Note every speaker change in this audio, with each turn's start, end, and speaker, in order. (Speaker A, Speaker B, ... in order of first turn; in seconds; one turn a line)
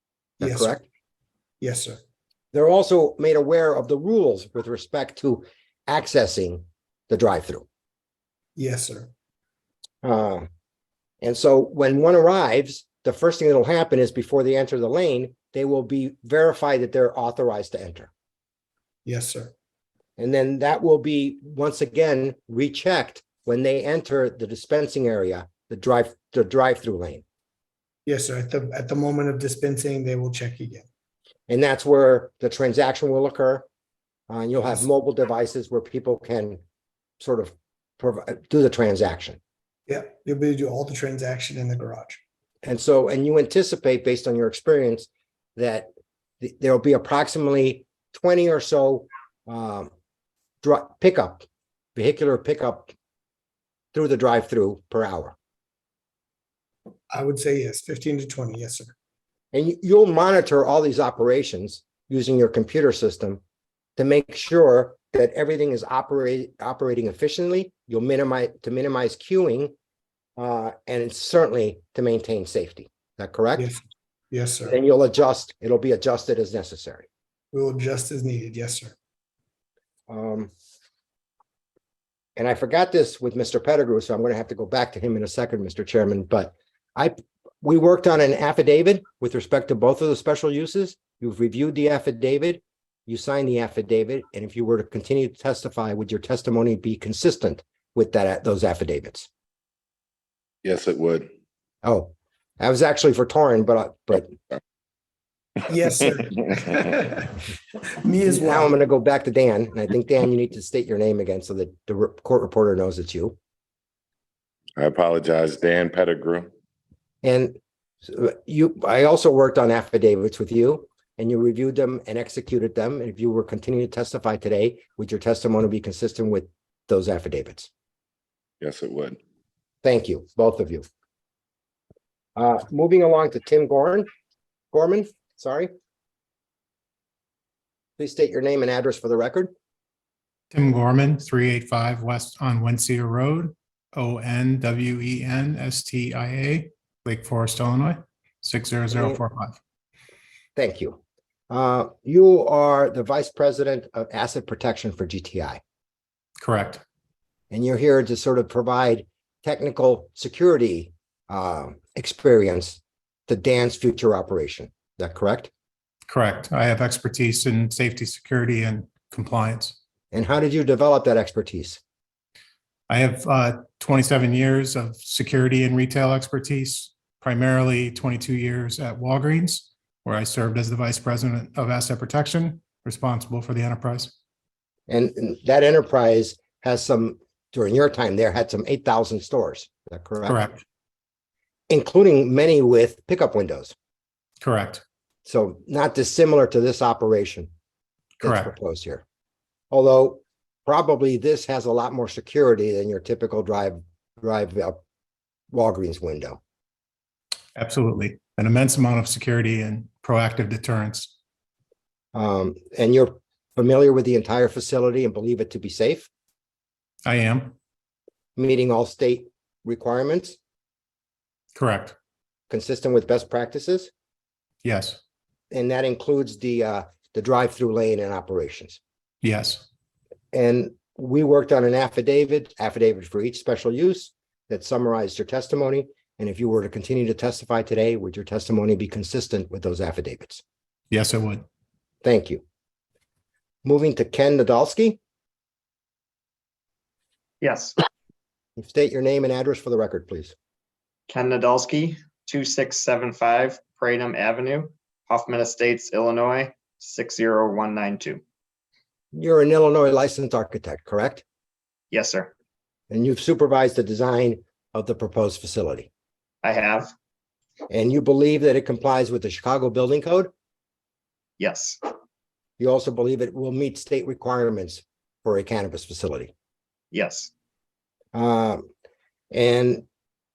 Speaker A: 0.4-0.8
Speaker B: 0.4-0.7
Speaker B: 1.6-2.0
Speaker A: 2.5-7.7
Speaker B: 8.6-9.1
Speaker A: 10.0-10.5
Speaker A: 11.2-18.1
Speaker B: 19.1-19.5
Speaker A: 20.2-27.2
Speaker B: 28.1-30.9
Speaker A: 31.5-33.6
Speaker A: 34.3-36.6
Speaker A: 37.2-39.4
Speaker B: 39.9-42.2
Speaker A: 42.6-45.9
Speaker A: 46.4-49.9
Speaker A: 50.6-52.9
Speaker A: 53.9-55.4
Speaker B: 57.1-58.9
Speaker A: 59.5-63.4
Speaker A: 64.0-69.7
Speaker A: 70.4-73.7
Speaker B: 74.3-74.8
Speaker A: 74.7-77.1
Speaker B: 77.5-78.9
Speaker A: 80.1-80.5
Speaker A: 82.4-99.3
Speaker C: 100.6-101.3
Speaker A: 101.8-104.4
Speaker B: 105.7-107.4
Speaker B: 108.0-108.7
Speaker A: 108.3-113.4
Speaker C: 114.8-116.5
Speaker A: 117.2-127.7
Speaker C: 128.6-129.2
Speaker A: 129.8-130.8
Speaker A: 132.4-134.1
Speaker A: 134.7-135.7
Speaker A: 138.0-139.5
Speaker D: 140.5-149.6
Speaker A: 148.9-149.2
Speaker A: 150.6-151.0
Speaker A: 151.5-155.6
Speaker D: 156.4-156.8
Speaker A: 157.5-165.5
Speaker D: 166.1-169.8
Speaker A: 170.1-171.8
Speaker D: 172.9-184.1
Speaker A: 184.9-190.4
Speaker D: 190.2-190.6
Speaker A: 191.7-193.7
Speaker D: 194.4-194.8
Speaker A: 195.3-197.5
Speaker A: 198.2-199.0
Speaker D: 198.2-198.5
Speaker A: 199.7-204.8
Speaker A: 205.5-206.4
Speaker D: 207.6-211.1
Speaker A: 212.1-216.1
Speaker D: 217.1-217.6
Speaker A: 218.4-220.4
Speaker D: 221.6-221.9
Speaker A: 222.5-223.9
Speaker D: 224.6-225.0
Speaker A: 225.5-228.8
Speaker D: 229.2-229.6
Speaker A: 230.3-240.4
Speaker D: 240.9-241.4
Speaker A: 242.0-242.4
Speaker A: 243.6-245.0
Speaker E: 247.4-247.8
Speaker A: 248.6-250.3
Speaker E: 251.1-258.2
Speaker A: 259.1-261.2
Speaker E: 261.9-262.3
Speaker A: 262.9-265.9
Speaker E: 266.4-266.9
Speaker A: 267.7-270.3
Speaker E: 271.4-271.8
Speaker A: 272.6-276.3
Speaker E: 276.9-277.3
Speaker A: 278.1-278.7
Speaker A: 279.3-279.9